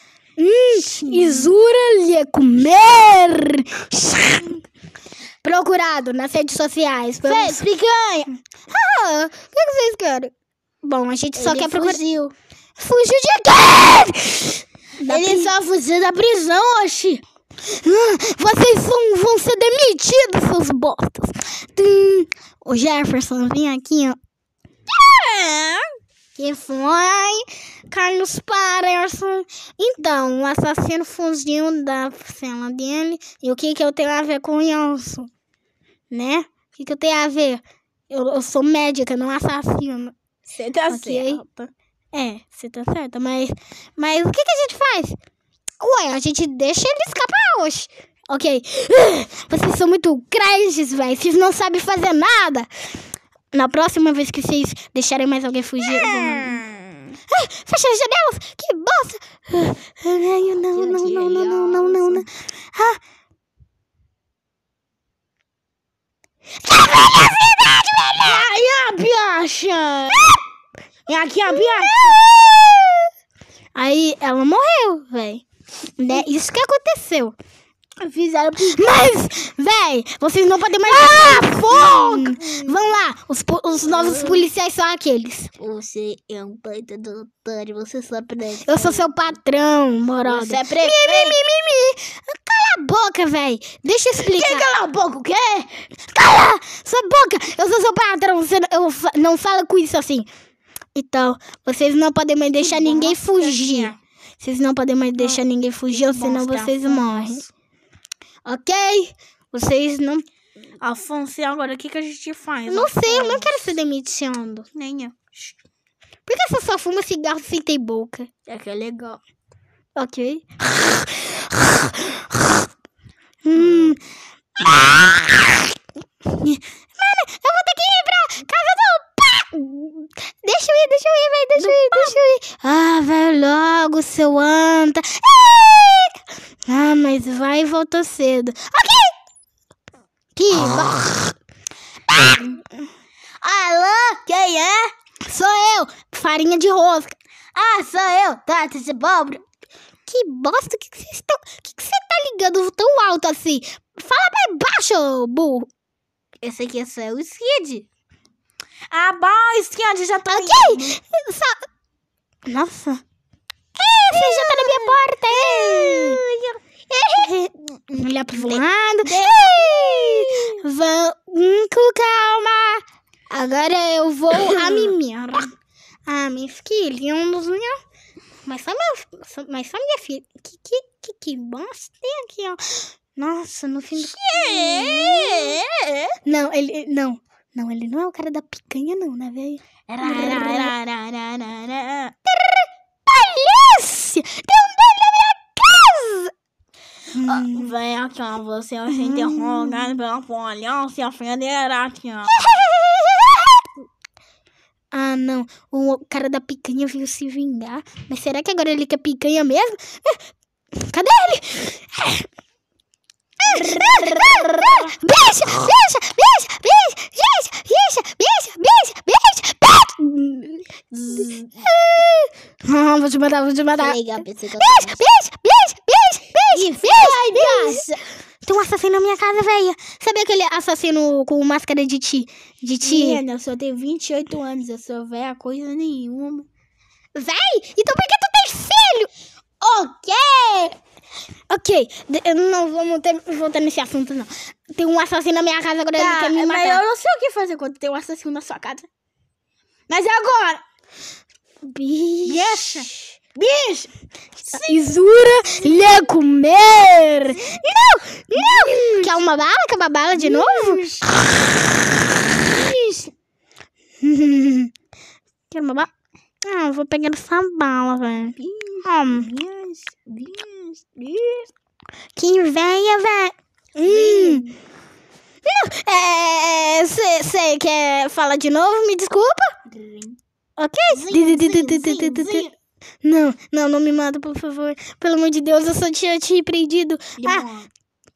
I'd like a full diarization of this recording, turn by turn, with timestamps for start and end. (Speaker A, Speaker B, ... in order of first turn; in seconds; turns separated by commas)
Speaker A: 0.4-4.6, Speaker B: 0.8-1.5, Speaker A: 5.4-7.7, Speaker B: 7.2-8.3, Speaker A: 8.7-10.3, Speaker A: 10.8-12.0, Speaker B: 11.4-12.3, Speaker A: 12.8-15.5, Speaker B: 15.1-17.2, Speaker A: 17.7-24.2, Speaker B: 24.9-25.9, Speaker A: 26.4-35.3, Speaker A: 36.1-40.1, Speaker B: 40.5-41.7, Speaker A: 40.9-41.4, Speaker A: 42.1-45.2, Speaker A: 45.8-52.7, Speaker A: 53.5-56.6, Speaker B: 55.8-57.1, Speaker A: 57.3-63.0, Speaker B: 60.7-62.2, Speaker A: 66.7-68.3, Speaker B: 66.8-70.4, Speaker B: 71.1-73.1, Speaker A: 71.2-72.2, Speaker A: 73.8-75.5, Speaker A: 76.0-77.3, Speaker B: 78.0-79.0, Speaker A: 78.6-85.5, Speaker B: 80.9-82.9, Speaker B: 83.8-84.5, Speaker B: 85.6-89.1, Speaker A: 88.7-94.7, Speaker B: 90.2-91.4, Speaker B: 94.2-96.1, Speaker A: 96.2-100.3, Speaker A: 101.0-107.4, Speaker B: 102.6-104.0, Speaker B: 105.2-107.5, Speaker A: 108.5-110.2, Speaker B: 110.8-113.5, Speaker A: 112.7-114.7, Speaker B: 114.8-115.6, Speaker A: 116.3-118.3, Speaker B: 118.5-119.2, Speaker A: 120.0-122.7, Speaker A: 123.4-124.0, Speaker B: 123.5-124.0, Speaker A: 124.6-125.7, Speaker A: 126.2-139.1, Speaker B: 131.6-132.2, Speaker A: 140.4-141.3, Speaker B: 140.5-141.2, Speaker B: 142.1-142.6, Speaker B: 143.4-144.9, Speaker A: 145.2-147.2, Speaker B: 147.5-149.4, Speaker A: 150.1-155.7, Speaker B: 156.4-157.8, Speaker B: 158.9-161.0, Speaker A: 160.3-161.7, Speaker A: 162.5-163.0, Speaker A: 163.8-166.2, Speaker B: 164.1-167.4, Speaker A: 167.0-175.5, Speaker B: 167.9-170.6, Speaker B: 174.3-174.9, Speaker A: 176.1-177.8, Speaker A: 178.4-185.6, Speaker B: 184.0-186.2, Speaker A: 186.2-190.7, Speaker B: 190.0-192.2, Speaker A: 192.3-196.3, Speaker A: 197.1-197.8, Speaker B: 197.3-202.4, Speaker A: 198.9-199.9, Speaker A: 202.3-203.6, Speaker A: 204.9-210.2, Speaker A: 210.8-212.3, Speaker A: 213.4-227.8, Speaker B: 213.5-214.9, Speaker B: 220.9-221.7, Speaker B: 223.8-225.0, Speaker B: 226.5-228.0, Speaker A: 228.4-233.2, Speaker B: 232.8-236.5, Speaker A: 237.2-239.1, Speaker B: 239.6-240.8, Speaker A: 241.5-246.8, Speaker B: 246.0-248.9, Speaker B: 249.9-250.6, Speaker A: 251.6-253.1, Speaker B: 252.3-253.9, Speaker B: 254.4-255.0, Speaker A: 254.5-260.8, Speaker B: 258.3-259.2, Speaker B: 260.1-261.5, Speaker B: 262.3-263.1, Speaker A: 264.0-264.7, Speaker A: 265.5-265.9, Speaker A: 266.4-269.3, Speaker B: 268.4-271.5, Speaker A: 272.2-274.4, Speaker B: 273.8-274.6, Speaker A: 275.4-279.6, Speaker B: 279.7-280.2, Speaker A: 280.6-282.5, Speaker B: 280.9-282.5, Speaker A: 283.0-287.5, Speaker B: 287.2-287.7